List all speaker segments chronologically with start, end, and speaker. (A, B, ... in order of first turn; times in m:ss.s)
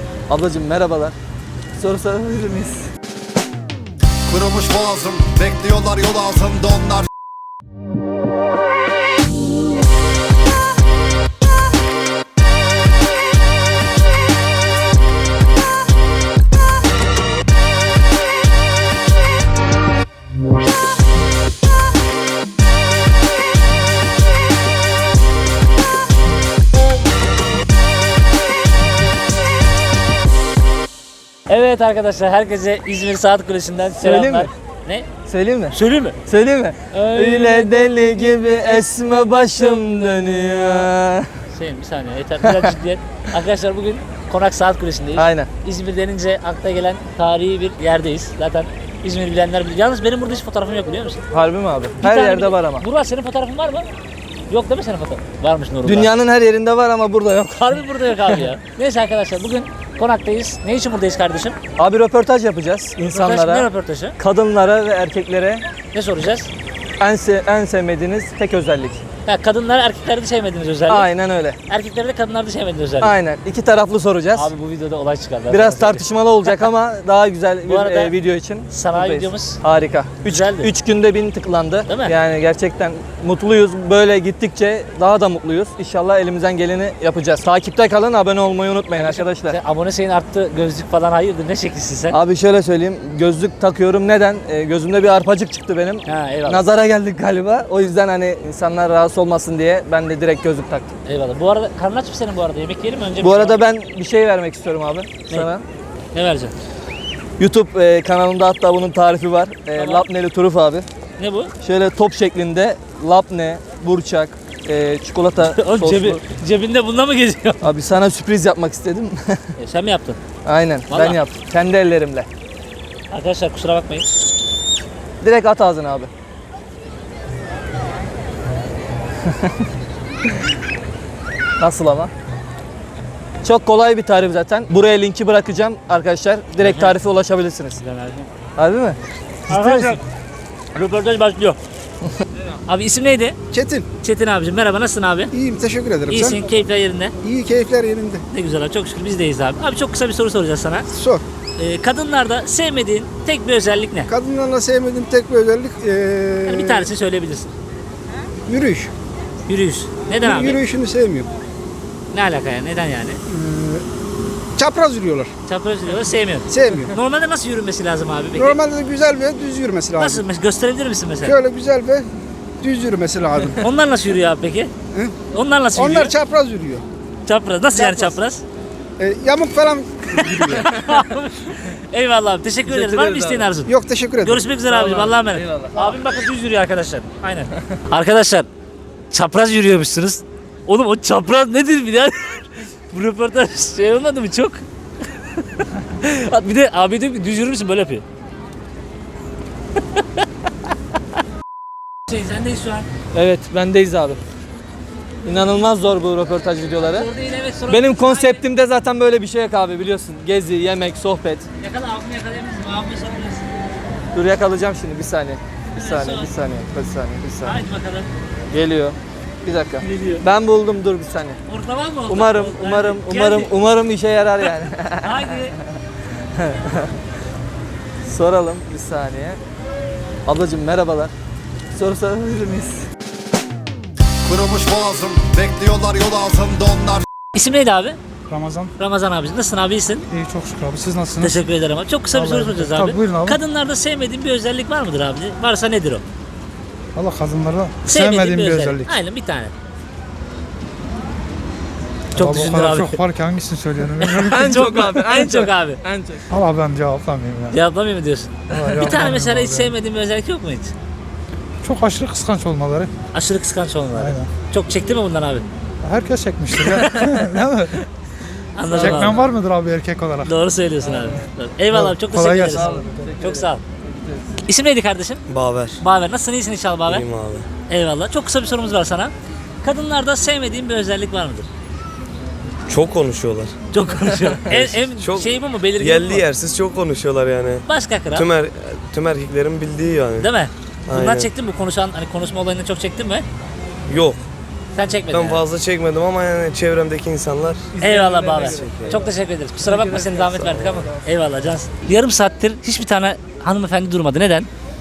0:00.3-0:01.1 A
0:01.8-0:02.9 A
0:04.3-0:07.1 B
0:31.5-0:35.1 C
0:34.0-0:34.5 A
0:35.3-0:41.3 A
0:35.7-0:36.2 C
0:36.9-0:40.8 C
0:41.5-0:51.2 C
0:45.2-0:45.5 A
0:51.3-0:52.8 A
0:52.0-0:53.8 C
0:54.5-0:56.1 C
0:55.8-0:57.7 A
0:57.6-1:01.6 C
1:01.8-1:03.6 A
1:03.0-1:04.2 C
1:04.2-1:05.6 A
1:05.9-1:06.5 C
1:07.0-1:09.0 A
1:09.2-1:11.1 C
1:10.9-1:11.6 A
1:11.7-1:13.1 C
1:13.0-1:14.5 A
1:14.4-1:16.6 C
1:15.5-1:29.6 A
1:17.7-1:18.1 C
1:18.7-1:19.6 C
1:20.2-1:20.7 C
1:21.9-1:22.1 C
1:29.0-1:32.2 C
1:32.1-1:40.9 A
1:36.0-1:36.6 C
1:41.0-1:43.6 C
1:43.2-1:45.6 A
1:46.1-1:46.5 C
1:47.4-1:50.8 A
1:49.8-1:50.0 C
1:51.2-1:51.5 C
1:51.6-1:56.2 A
1:55.6-1:57.6 C
1:57.6-1:59.4 A
1:59.6-2:00.2 C
2:00.4-2:02.3 A
2:00.9-2:01.2 C
2:03.1-2:04.1 C
2:05.2-2:06.1 A
2:09.3-2:09.5 A
2:11.6-2:12.1 A
2:13.4-2:17.8 A
2:16.6-2:17.0 C
2:17.8-2:18.3 C
2:18.6-2:19.0 A
2:19.5-2:20.0 C
2:19.5-2:20.0 D
2:20.7-2:21.6 C
2:22.6-2:23.4 C
2:23.5-2:23.8 D
2:24.0-2:25.3 C
2:25.3-2:26.4 D
2:26.1-2:27.1 C
2:27.2-2:28.2 D
2:28.3-2:30.8 C
2:30.9-2:31.2 D
2:31.6-2:34.1 C
2:34.1-2:36.9 D
2:36.5-2:37.5 C
2:38.5-2:38.9 D
2:39.5-2:40.6 C
2:40.2-2:41.3 D
2:42.1-2:43.2 C
2:43.3-2:43.8 D
2:44.6-2:45.3 D
2:45.5-2:48.6 C
2:46.5-2:46.9 D
2:48.4-2:50.2 D
2:50.0-2:51.4 C
2:51.2-2:52.0 D
2:52.6-2:53.6 D
2:53.6-2:54.7 C
2:55.3-2:56.1 C
2:55.7-2:56.8 D
2:57.2-2:58.4 C
2:57.7-2:58.2 D
2:59.0-3:00.7 D
3:00.2-3:08.5 C
3:02.7-3:03.5 A
3:03.6-3:04.4 D
3:04.7-3:06.0 A
3:09.1-3:14.6 C
3:15.6-3:18.0 C
3:22.1-3:22.9 C
3:23.1-3:24.2 A
3:25.2-3:27.1 A
3:26.9-3:28.4 C
3:27.7-3:31.4 A
3:31.6-3:33.5 C
3:34.1-3:37.5 A
3:35.8-3:36.3 C
3:37.4-3:38.1 C
3:38.5-3:41.4 A
3:39.8-3:40.2 C
3:41.5-3:43.5 C
3:42.1-3:45.3 A
3:45.0-3:45.6 C
3:46.4-3:46.9 A
3:48.0-3:49.4 A
3:50.2-3:51.1 A
3:51.7-3:52.8 A
3:54.2-3:57.0 B
3:57.3-3:58.0 C
3:58.3-3:58.7 E
3:58.8-4:00.0 C
4:00.1-4:01.4 E
4:01.2-4:06.0 C
4:02.1-4:03.4 E
4:06.9-4:09.0 E
4:07.8-4:09.5 C
4:12.1-4:14.8 E
4:12.2-4:13.0 C
4:14.0-4:15.8 C
4:14.2-4:16.2 A
4:16.3-4:17.6 E
4:17.5-4:20.7 C
4:18.5-4:19.7 E
4:21.6-4:22.9 E
4:23.1-4:25.4 C
4:23.9-4:24.3 E
4:25.8-4:27.8 E
4:28.6-4:29.3 C
4:28.7-4:30.3 E
4:28.7-4:29.3 A
4:30.2-4:33.6 C
4:30.8-4:31.2 A
4:31.7-4:33.0 E
4:32.5-4:34.2 A
4:34.5-4:35.2 C
4:35.3-4:35.8 F
4:35.8-4:37.0 C
4:36.9-4:37.4 F
4:37.7-4:41.5 C
4:42.7-4:43.5 F
4:43.7-4:46.2 C
4:45.0-4:50.3 F
4:47.6-4:48.2 C
4:50.2-4:53.2 C
4:50.9-4:51.3 F
4:53.9-4:54.2 F
4:54.7-4:55.4 C
4:55.1-4:57.7 F
4:57.7-4:59.1 A
4:57.8-5:04.5 C
4:59.6-5:00.5 A
5:00.4-5:00.8 F